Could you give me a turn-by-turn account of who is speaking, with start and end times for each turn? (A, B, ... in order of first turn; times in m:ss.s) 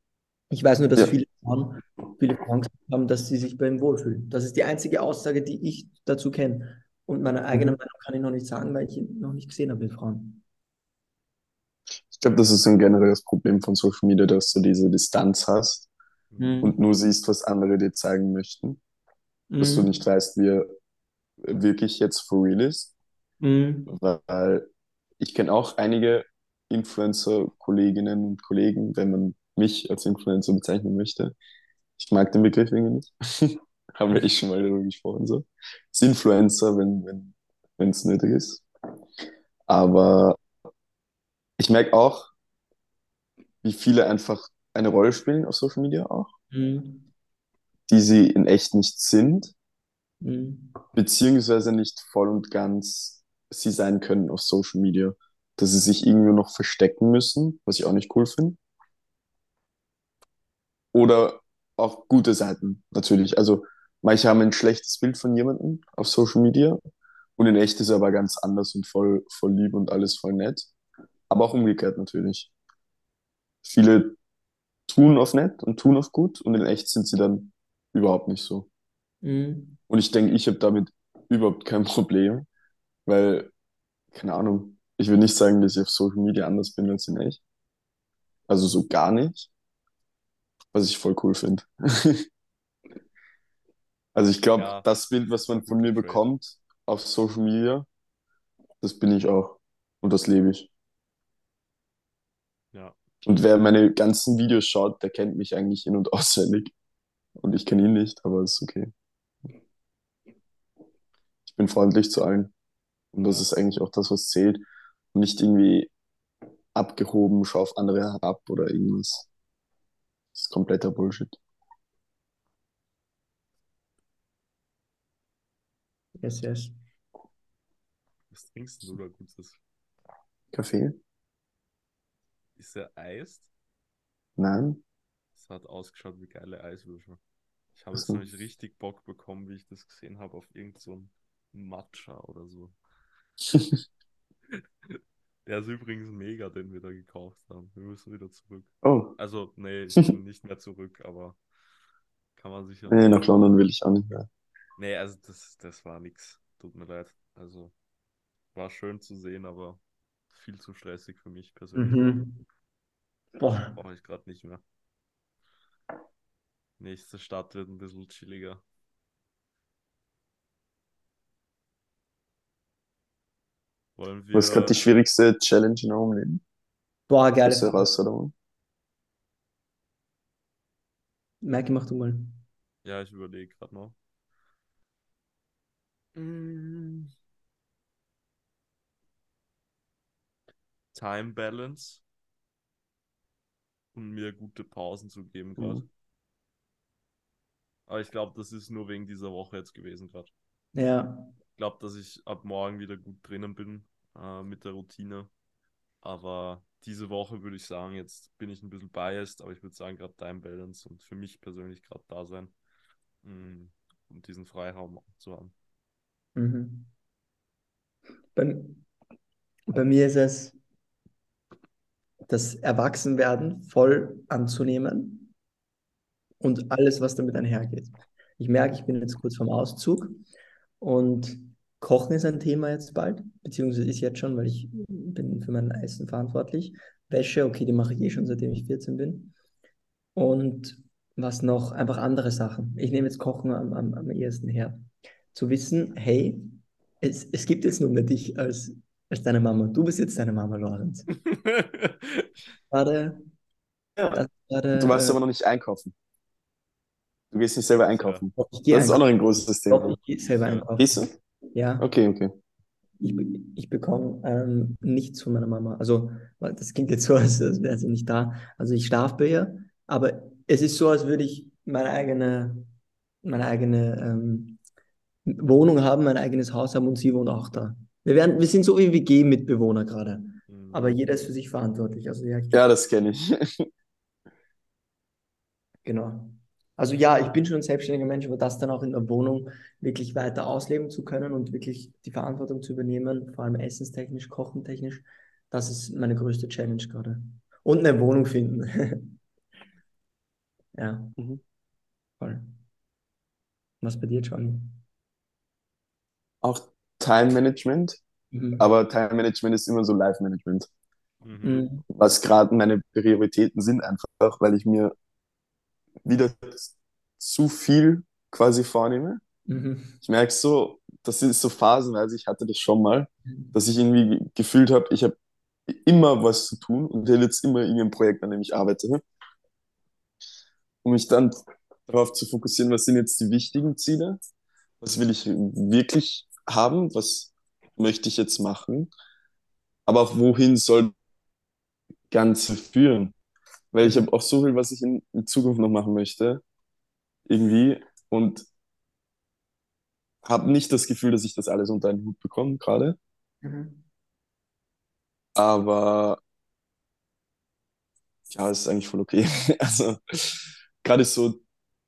0:00.5-0:10.4 A
0:12.1-0:15.9 B
0:16.3-0:16.6 C
0:16.4-0:16.8 A
0:16.6-0:18.8 B
0:19.5-0:20.0 A
0:19.6-0:20.7 B
0:21.4-0:22.9 B
0:23.4-0:23.9 A
0:23.9-0:24.7 B
0:25.2-0:31.3 B
0:32.0-0:38.6 B
0:39.7-0:40.4 B
0:41.6-0:42.3 B
0:43.6-0:46.3 B
0:46.5-0:47.1 A
0:47.9-0:49.5 B
0:50.2-0:50.8 A
0:50.9-0:58.6 B
1:00.9-1:06.8 B
1:07.4-1:10.7 B
1:11.3-1:12.5 B
1:13.6-1:14.2 B
1:14.9-1:18.7 B
1:19.2-1:19.8 A
1:19.9-1:22.5 B
1:23.1-1:23.5 B
1:24.1-1:27.4 B
1:28.5-1:29.5 B
1:30.7-1:32.2 B
1:34.2-1:37.9 B
1:34.6-1:36.2 C
1:38.8-1:40.7 B
1:43.2-1:46.7 B
1:47.4-1:48.9 B
1:51.5-1:52.5 B
1:53.1-1:55.9 B
1:56.8-1:59.3 B
2:00.3-2:01.4 B
2:06.2-2:06.8 A
2:08.3-2:09.6 C
2:10.5-2:11.0 B
2:12.6-2:13.5 C
2:14.4-2:14.8 B
2:15.4-2:17.2 C
2:17.8-2:22.8 C
2:18.0-2:18.2 B
2:23.5-2:23.8 B
2:24.9-2:31.4 C
2:28.8-2:29.2 B
2:32.4-2:33.3 C
2:32.9-2:34.3 B
2:34.8-2:37.7 C
2:38.6-2:42.1 C
2:41.8-2:42.4 A
2:43.4-2:43.8 A
2:43.7-2:44.6 C
2:46.8-2:48.6 C
2:54.0-2:54.8 C
2:54.3-2:56.4 B
2:57.1-2:57.9 A
2:57.4-2:58.3 B
3:01.4-3:02.4 A
3:02.8-3:04.0 C
3:06.2-3:07.1 A
3:10.9-3:12.0 C
3:14.0-3:15.9 C
3:15.6-3:15.8 B
3:17.9-3:20.3 C
3:20.8-3:21.3 A
3:21.6-3:25.3 C
3:26.0-3:32.5 C
3:33.2-3:35.5 C
3:36.4-3:36.9 A
3:38.4-3:38.8 A
3:39.7-3:40.6 A
3:42.3-3:45.3 A
3:46.4-3:50.2 A
3:50.8-3:59.3 A
4:00.2-4:11.1 A
4:11.1-4:12.3 C
4:12.7-4:13.2 A
4:14.1-4:15.2 A
4:14.8-4:15.9 B
4:17.3-4:20.0 B
4:17.8-4:18.2 C
4:18.4-4:19.0 A
4:19.7-4:21.9 A
4:20.4-4:20.7 C
4:20.8-4:21.1 B
4:21.8-4:22.3 B
4:23.0-4:32.7 A
4:33.2-4:34.6 A
4:35.3-4:42.6 A
4:40.5-4:41.0 C
4:42.5-4:43.7 B
4:45.8-4:59.2 A
5:00.8-5:01.2 A
5:02.2-5:02.6 A
5:03.8-5:04.8 A
5:06.4-5:08.0 B
5:08.3-5:08.7 A
5:08.6-5:10.7 B
5:11.2-5:11.7 C
5:11.4-5:11.8 A
5:11.9-5:14.9 B
5:16.0-5:19.2 B
5:19.5-5:20.0 A
5:20.0-5:25.2 B
5:25.7-5:29.0 B
5:30.8-5:31.3 B
5:31.9-5:34.2 B
5:34.8-5:38.9 B
5:39.9-5:40.9 B
5:42.1-5:43.2 B
5:43.7-5:46.4 B
5:43.8-5:44.1 A
5:47.3-5:48.5 B
5:50.2-5:53.0 B
5:53.4-5:53.8 A
5:55.4-5:56.2 B
5:58.3-6:01.4 B